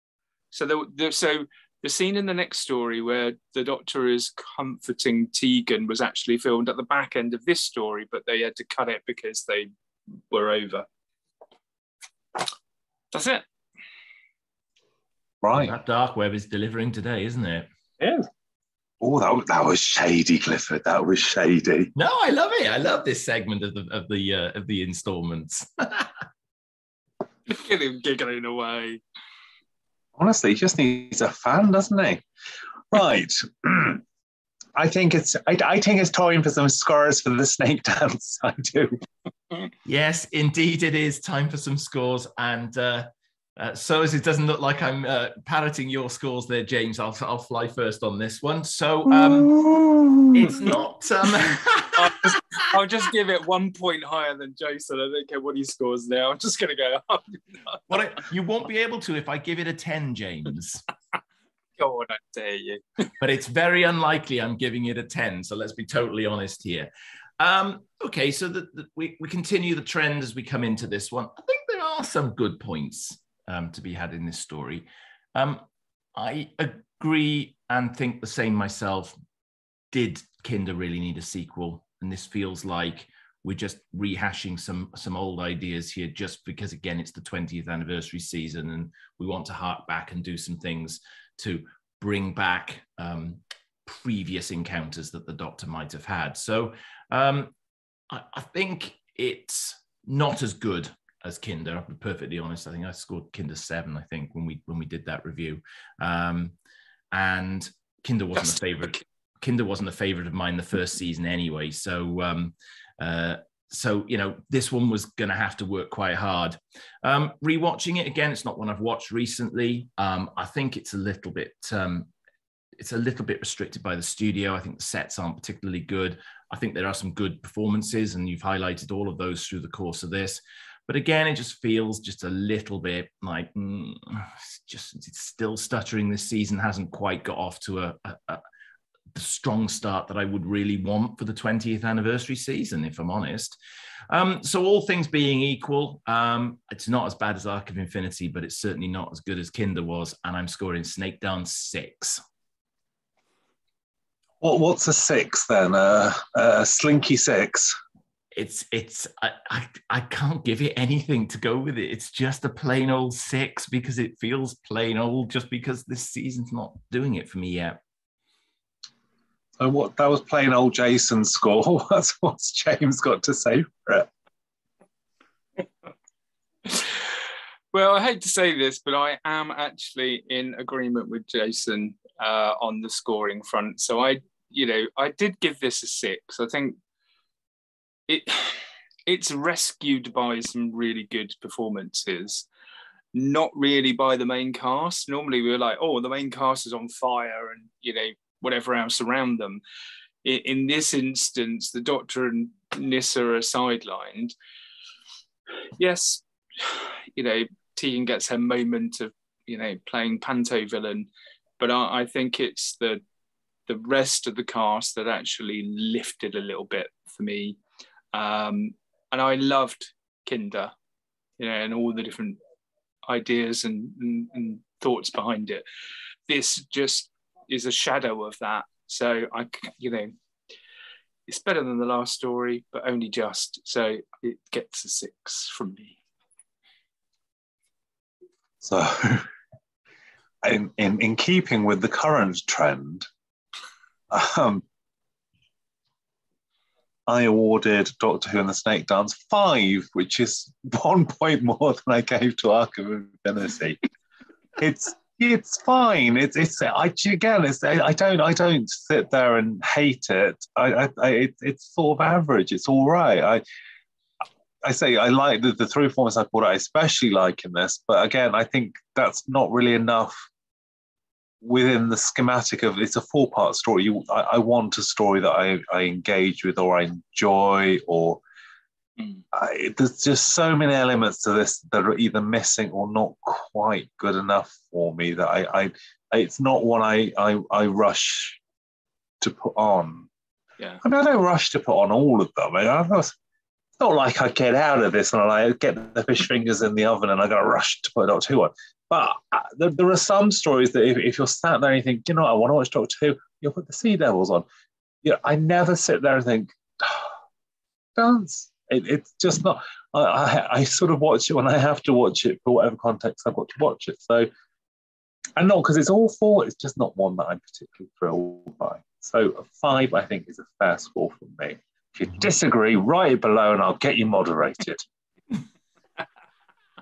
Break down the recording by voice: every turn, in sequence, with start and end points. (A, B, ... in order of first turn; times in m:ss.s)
0:00.5-0:09.7 A
0:10.3-0:10.9 A
0:13.1-0:13.5 A
0:15.4-0:15.8 B
0:15.6-0:17.7 C
0:18.0-0:18.3 B
0:19.0-0:21.9 B
0:22.0-0:26.1 C
0:27.5-0:29.0 A
0:30.2-0:32.2 B
0:32.9-0:34.0 B
0:34.8-0:39.0 B
0:39.8-0:49.6 C
0:49.5-0:50.5 B
0:50.3-0:52.7 C
0:52.0-0:58.2 A
0:57.9-1:00.8 C
1:01.8-1:03.1 A
1:03.2-1:15.6 C
1:16.2-1:19.2 C
1:19.9-1:37.5 C
1:38.1-1:46.6 C
1:47.1-2:02.1 C
1:48.4-1:49.0 A
2:02.8-2:18.4 C
2:19.1-2:23.6 C
2:24.1-2:32.2 C
2:34.4-2:37.8 B
2:38.4-2:47.8 C
2:49.6-2:54.1 B
2:56.7-2:57.0 A
2:57.7-3:06.8 A
3:08.1-3:12.5 A
3:13.1-3:19.6 A
3:20.2-3:24.3 A
3:25.8-3:33.0 A
3:33.7-3:37.6 A
3:38.1-3:40.7 A
3:41.4-3:42.4 A
3:43.1-3:45.6 A
3:46.3-3:50.1 A
3:51.3-3:56.0 A
3:58.6-3:59.3 B
4:00.4-4:03.1 B
4:04.1-4:04.6 B
4:07.1-4:13.8 B
4:14.6-4:23.4 B
4:24.6-4:30.2 B
4:31.4-4:38.2 B
4:39.3-4:48.4 B
4:49.2-4:50.1 B
4:50.8-4:53.2 B
4:53.8-5:04.5 B
5:05.0-5:07.1 B
5:08.0-5:14.3 B
5:15.4-5:24.8 B